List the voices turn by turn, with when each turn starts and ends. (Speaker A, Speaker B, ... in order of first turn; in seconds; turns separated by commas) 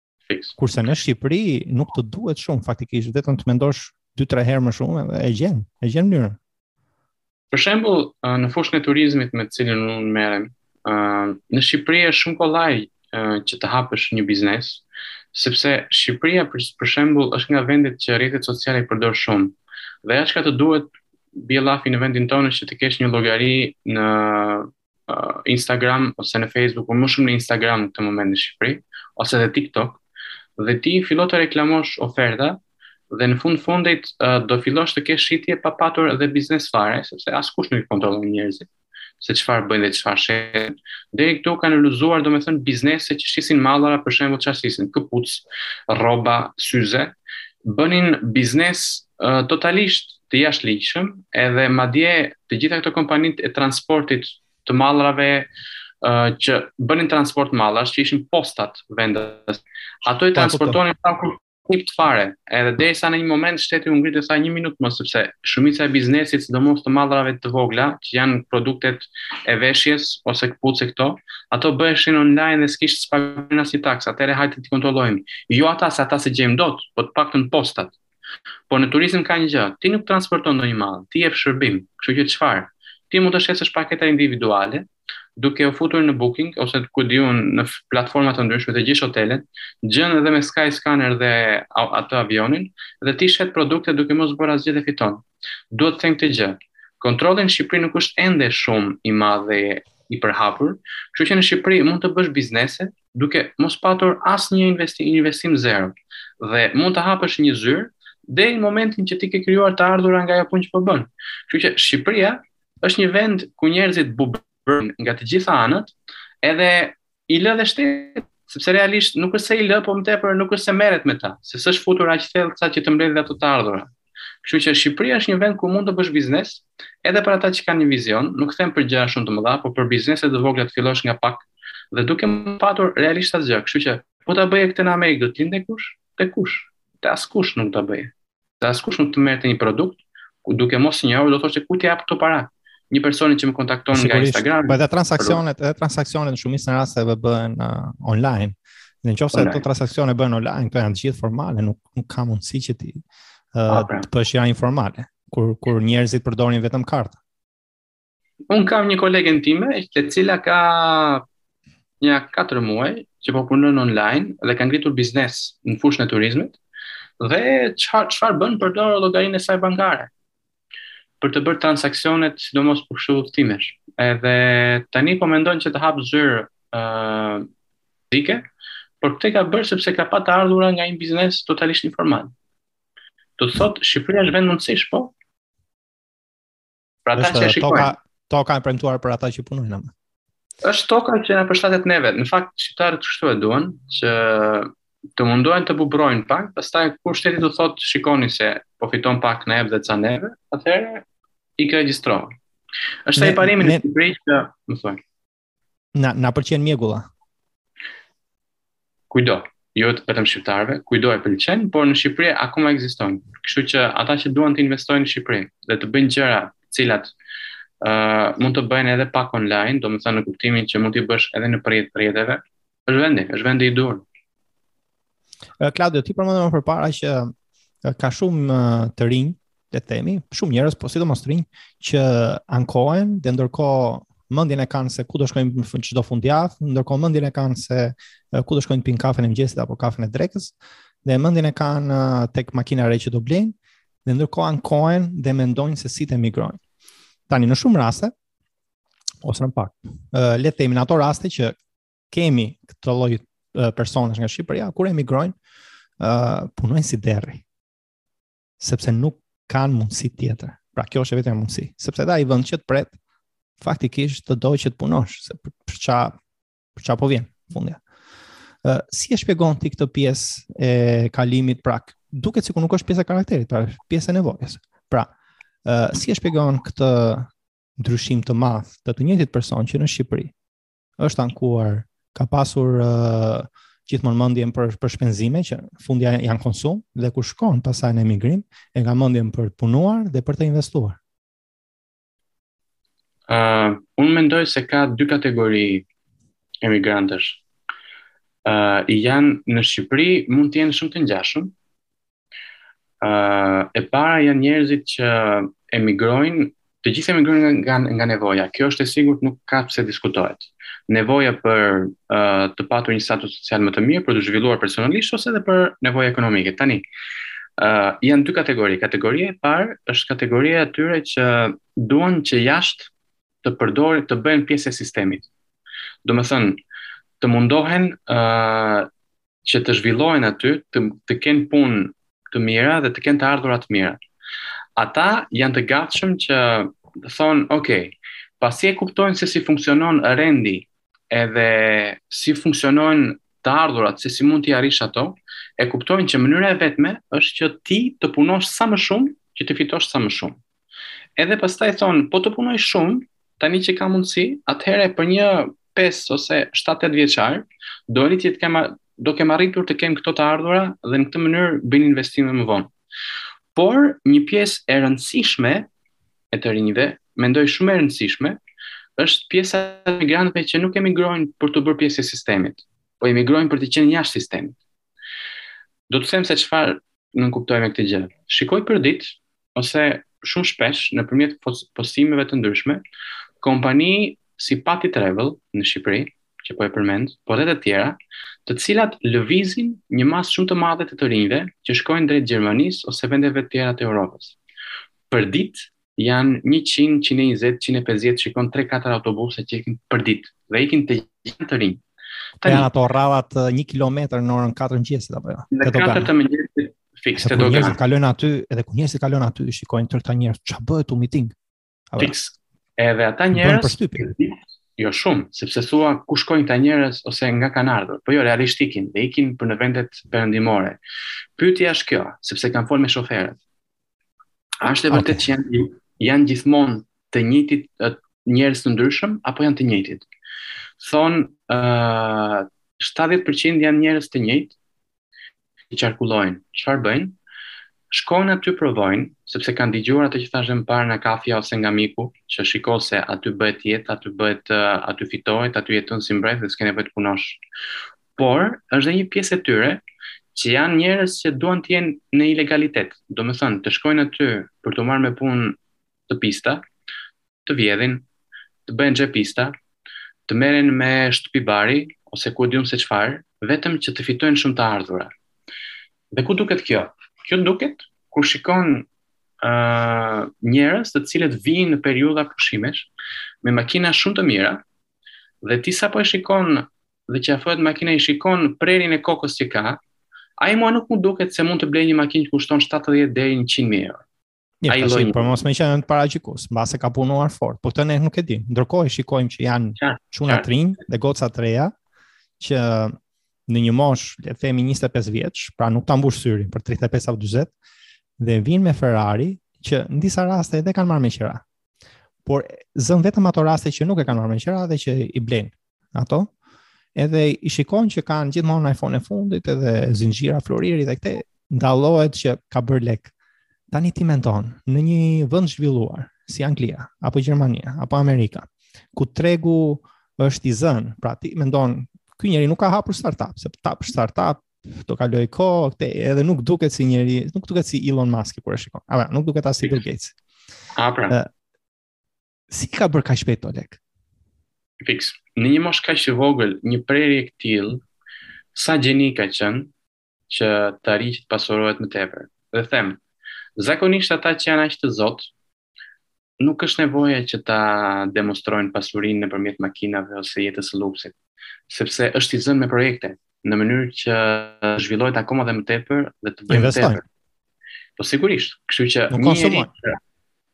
Speaker A: 0.3-0.6, Speaker B: 0.6-6.4, Speaker A: 7.5-30.0, Speaker A: 30.6-32.6, Speaker A: 33.1-38.7, Speaker A: 39.2-47.1, Speaker A: 47.6-55.5, Speaker A: 56.0-77.9, Speaker B: 60.4-60.8, Speaker A: 78.7-123.9, Speaker A: 124.4-145.4, Speaker B: 143.9-153.0, Speaker A: 149.3-149.6, Speaker B: 153.5-157.2, Speaker A: 153.7-154.1, Speaker A: 158.5-161.2, Speaker A: 162.0-166.6, Speaker A: 167.2-170.1, Speaker A: 171.2-177.5, Speaker A: 178.1-178.4, Speaker A: 179.0-182.3, Speaker A: 183.4-185.1, Speaker A: 187.1-187.9, Speaker B: 187.2-189.9, Speaker A: 190.6-201.1, Speaker A: 201.6-202.3, Speaker A: 203.1-205.0, Speaker B: 203.2-203.8, Speaker B: 205.9-207.1, Speaker A: 209.1-217.1, Speaker A: 217.8-224.0, Speaker B: 225.6-246.6, Speaker B: 247.3-248.1, Speaker B: 249.2-251.6, Speaker B: 252.1-255.3, Speaker B: 256.0-257.4, Speaker B: 258.6-262.9, Speaker B: 263.6-266.1, Speaker B: 266.8-267.8, Speaker B: 268.6-275.1, Speaker B: 275.7-280.3, Speaker B: 281.0-291.0, Speaker A: 293.3-295.9, Speaker A: 296.6-297.4, Speaker A: 298.4-301.5, Speaker A: 303.0-316.9, Speaker A: 317.6-322.9, Speaker A: 323.4-325.3, Speaker A: 326.0-326.6, Speaker A: 327.2-328.9, Speaker A: 329.4-334.0, Speaker A: 334.8-350.4, Speaker A: 351.2-362.7, Speaker A: 363.6-365.7, Speaker A: 366.3-368.4, Speaker A: 369.0-374.6, Speaker A: 375.9-382.8, Speaker A: 383.4-394.4, Speaker A: 395.1-401.8, Speaker A: 402.4-402.7, Speaker B: 402.4-406.1, Speaker A: 405.5-407.8, Speaker B: 407.2-411.4, Speaker A: 412.0-420.8, Speaker B: 413.3-414.1, Speaker A: 421.4-423.4, Speaker A: 424.6-430.1, Speaker B: 424.9-425.2, Speaker A: 430.8-434.6, Speaker A: 435.7-437.2, Speaker A: 437.9-447.4, Speaker A: 448.2-449.8, Speaker A: 450.3-456.6, Speaker A: 457.5-458.1, Speaker A: 458.7-459.5, Speaker A: 460.3-465.1, Speaker A: 466.1-468.9, Speaker A: 469.4-472.9, Speaker A: 473.4-474.6, Speaker A: 475.4-479.8, Speaker A: 480.4-484.0, Speaker B: 484.6-491.7, Speaker A: 484.7-485.4, Speaker A: 489.8-490.4, Speaker B: 492.4-493.0, Speaker B: 493.5-497.5, Speaker B: 498.2-501.4, Speaker B: 502.2-506.3, Speaker B: 507.0-513.1, Speaker B: 513.7-530.1, Speaker A: 530.8-531.2, Speaker B: 532.5-533.8, Speaker A: 534.8-537.8, Speaker A: 538.5-539.7, Speaker A: 540.3-543.0, Speaker A: 543.6-545.3, Speaker A: 546.4-551.1, Speaker A: 551.7-557.0, Speaker B: 556.5-557.0, Speaker A: 558.0-560.0, Speaker B: 559.1-559.7